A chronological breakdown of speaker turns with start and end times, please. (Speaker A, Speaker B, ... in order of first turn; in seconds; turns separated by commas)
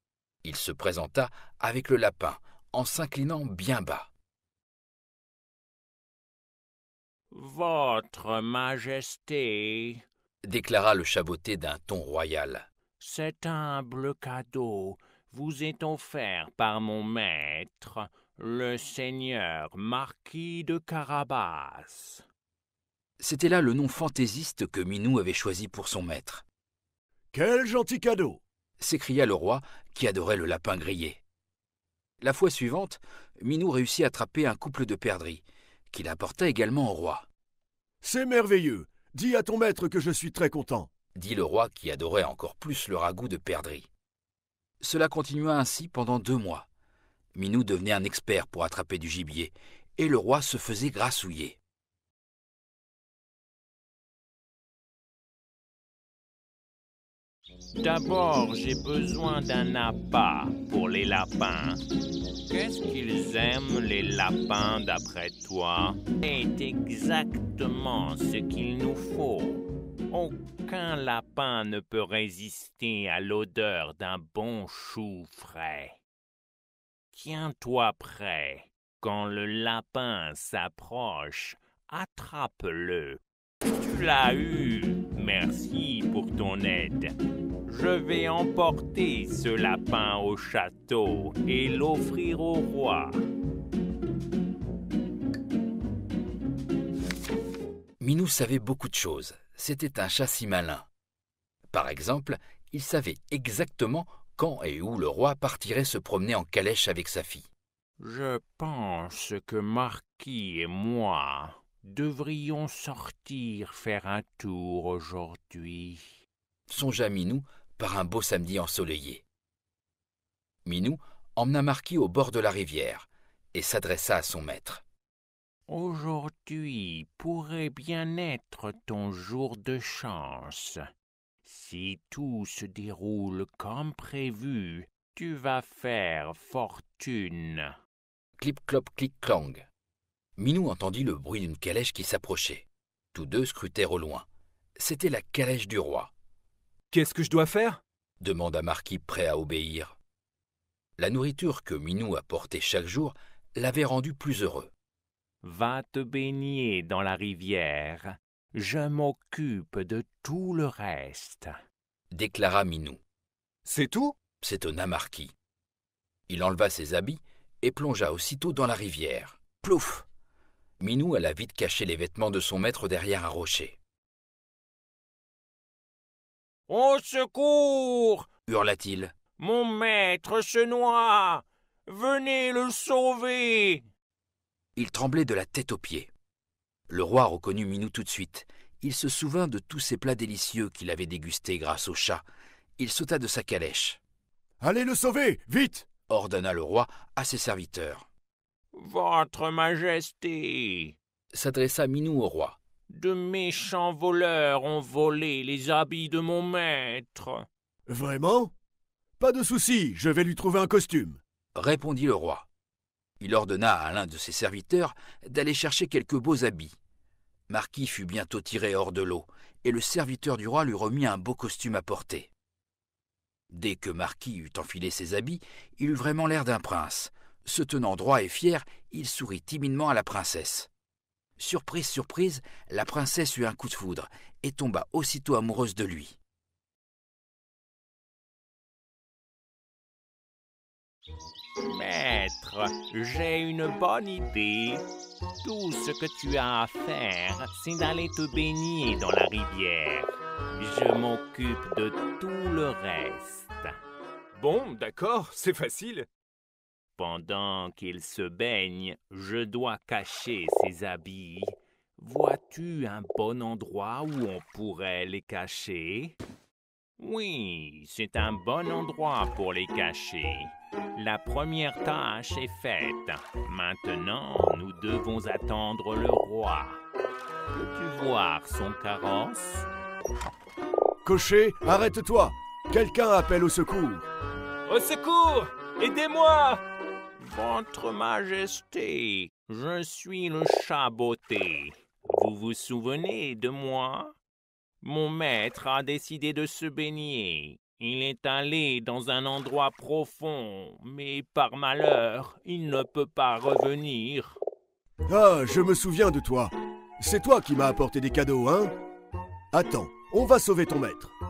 Speaker A: 0.4-4.1, Speaker B: 7.3-10.0, Speaker A: 10.4-12.7, Speaker B: 13.0-22.2, Speaker A: 23.2-26.4, Speaker C: 27.3-28.4, Speaker A: 28.8-31.2, Speaker A: 32.2-37.3, Speaker C: 38.0-40.9, Speaker A: 41.1-43.9, Speaker A: 44.8-46.7, Speaker A: 47.4-51.6, Speaker B: 57.8-61.8, Speaker B: 62.5-76.0, Speaker B: 77.1-87.1, Speaker B: 87.7-93.2, Speaker A: 98.0-100.9, Speaker A: 101.7-107.5, Speaker B: 108.0-116.1, Speaker A: 116.7-119.2, Speaker A: 120.7-124.8, Speaker B: 125.7-130.8, Speaker B: 131.4-137.7, Speaker A: 138.4-139.7, Speaker A: 140.4-144.3, Speaker A: 144.8-146.1, Speaker D: 146.9-147.8, Speaker A: 148.2-150.0, Speaker A: 151.0-154.7, Speaker B: 155.4-161.5, Speaker A: 162.1-163.0, Speaker D: 163.7-164.1, Speaker A: 164.4-165.3, Speaker A: 166.3-170.1, Speaker A: 170.8-173.8, Speaker B: 176.7-178.3, Speaker A: 178.5-179.1, Speaker B: 179.4-183.9, Speaker A: 184.8-186.1, Speaker A: 186.9-192.2, Speaker A: 192.8-194.0, Speaker C: 194.6-195.8, Speaker A: 196.1-198.1, Speaker B: 198.7-201.0, Speaker A: 201.3-202.6, Speaker B: 202.9-207.5, Speaker C: 207.9-208.5, Speaker C: 209.2-211.2, Speaker A: 211.6-212.5, Speaker A: 213.2-216.8, Speaker A: 217.5-222.3, Speaker A: 223.5-230.7, Speaker A: 231.4-236.2, Speaker B: 241.6-244.8, Speaker B: 245.4-253.7, Speaker D: 254.3-256.1, Speaker B: 257.0-266.2, Speaker B: 267.0-276.8, Speaker B: 277.5-279.7, Speaker C: 281.0-284.1, Speaker D: 284.7-286.6, Speaker B: 287.2-294.2, Speaker B: 294.8-304.4, Speaker C: 305.1-308.7, Speaker C: 309.5-311.1